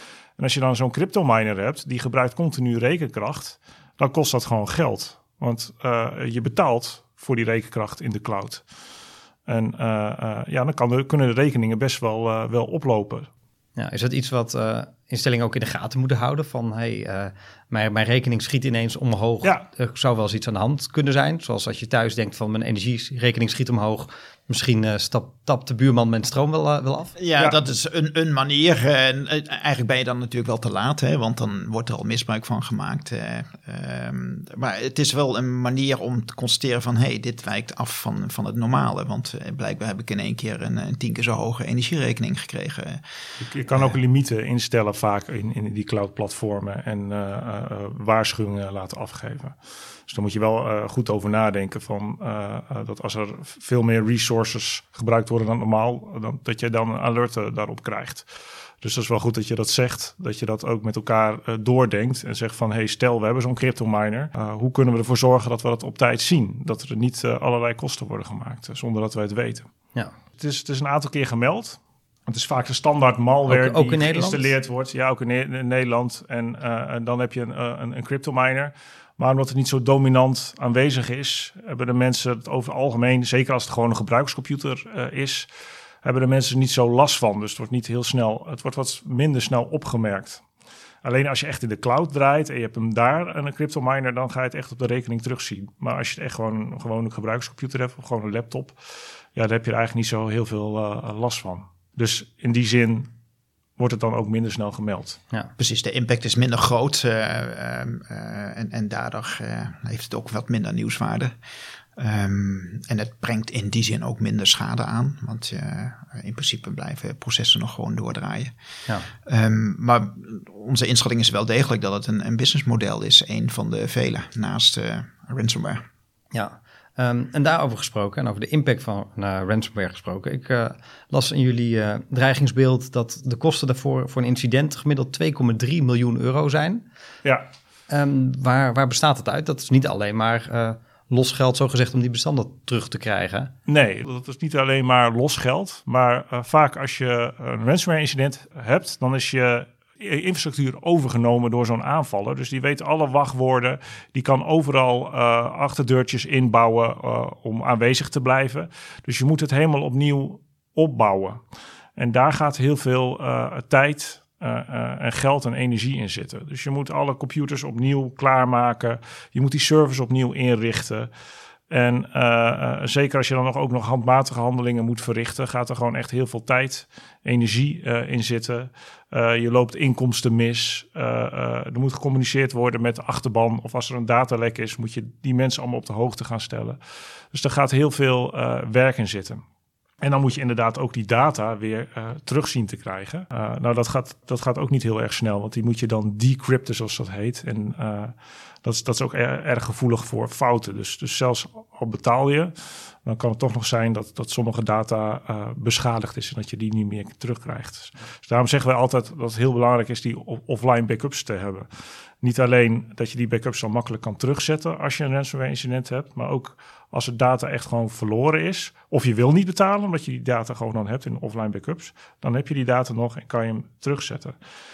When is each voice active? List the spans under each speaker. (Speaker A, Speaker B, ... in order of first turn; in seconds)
Speaker A: 0.4-8.6, 9.5-13.3, 43.4-49.6, 50.1-58.3, 58.8-69.7, 70.4-85.5, 86.0-90.4, 91.0-98.8, 99.3-103.1, 103.8-105.2, 143.7-161.4, 162.0-171.1, 171.7-186.8, 187.3-189.4, 190.0-202.5, 203.0-211.7, 212.2-224.4
Speaker B: 13.8-27.2, 73.5-74.5, 126.3-136.8, 137.9-143.5
Speaker C: 27.2-43.0, 105.6-111.3, 112.0-118.5, 119.2-125.8